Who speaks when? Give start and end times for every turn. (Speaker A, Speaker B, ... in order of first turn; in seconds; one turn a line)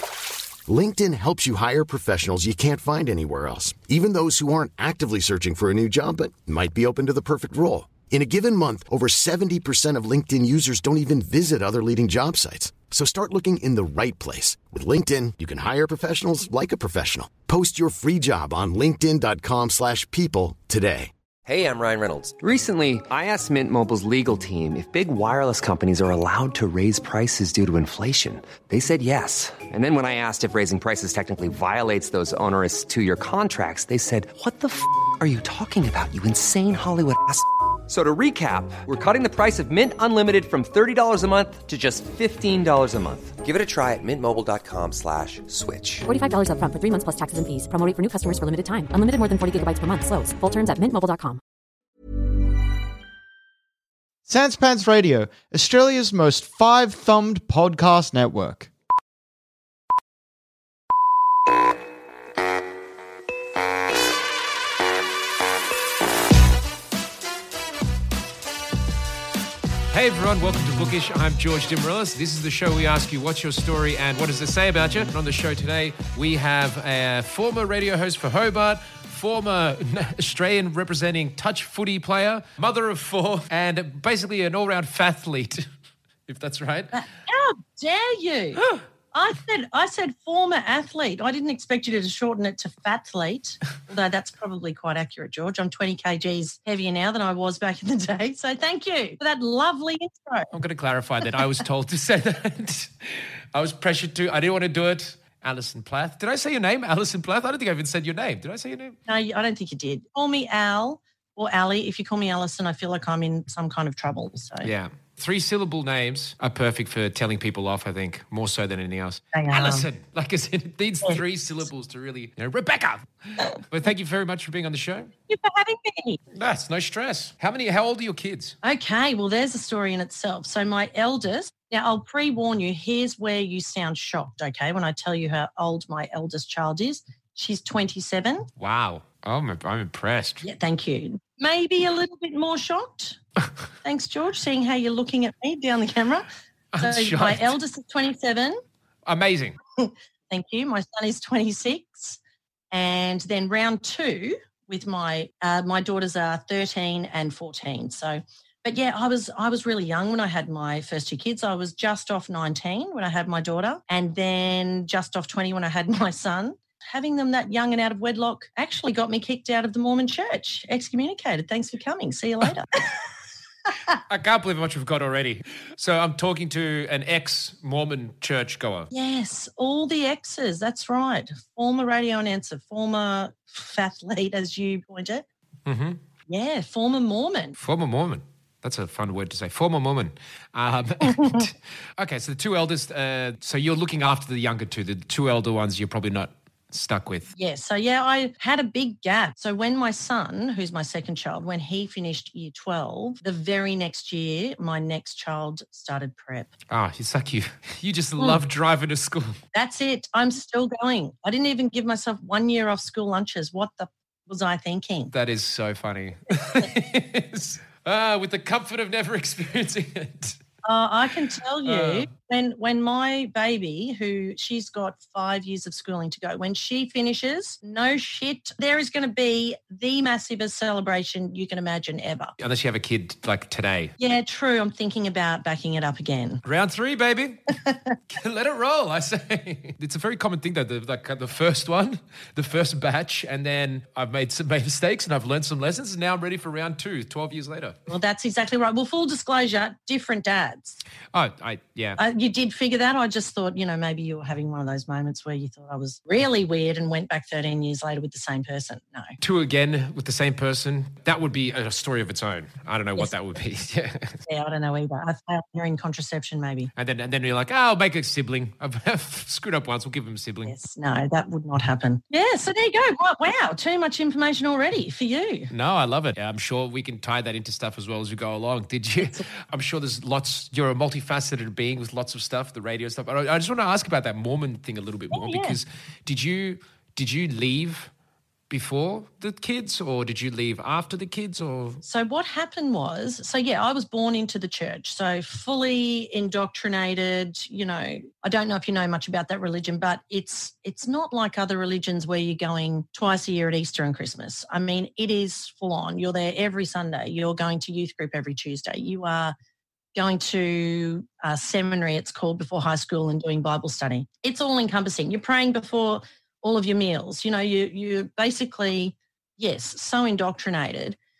Speaker A: 0.7-21.1
Speaker B: 21.4-46.1
Speaker C: 46.1-51.4
Speaker D: 54.3-58.7
Speaker E: 69.9-85.7
Speaker E: 86.3-86.9
Speaker F: 86.9-100.5
Speaker E: 100.5-109.0
Speaker F: 109.1-114.7
Speaker E: 114.6-125.1
Speaker F: 119.3-119.9
Speaker F: 125.3-126.2
Speaker E: 126.3-128.6
Speaker F: 128.6-138.5
Speaker E: 138.6-140.4
Speaker F: 140.4-143.2
Speaker F: 143.8-146.3
Speaker E: 146.7-147.6
Speaker F: 146.8-148.6
Speaker E: 149.1-149.6
Speaker F: 149.8-152.2
Speaker F: 152.7-172.7
Speaker E: 174.1-178.9
Speaker F: 178.9-185.2
Speaker E: 185.7-186.0
Speaker F: 186.3-187.6
Speaker E: 187.6-197.3
Speaker F: 191.1-191.4
Speaker F: 197.3-206.5
Speaker E: 206.7-209.4
Speaker F: 209.5-215.1
Speaker E: 215.1-220.4
Speaker F: 220.6-232.3
Speaker E: 221.6-222.1
Speaker E: 232.4-233.9
Speaker F: 234.0-236.4
Speaker E: 236.4-237.6
Speaker E: 238.1-247.8
Speaker F: 247.9-250.8
Speaker E: 251.1-252.0
Speaker F: 252.0-259.1
Speaker E: 259.2-264.2
Speaker F: 264.2-266.7
Speaker E: 266.8-270.5
Speaker F: 270.4-275.5
Speaker E: 275.5-287.9
Speaker F: 285.1-285.6
Speaker E: 288.5-291.8
Speaker F: 291.8-309.3
Speaker F: 309.9-321.0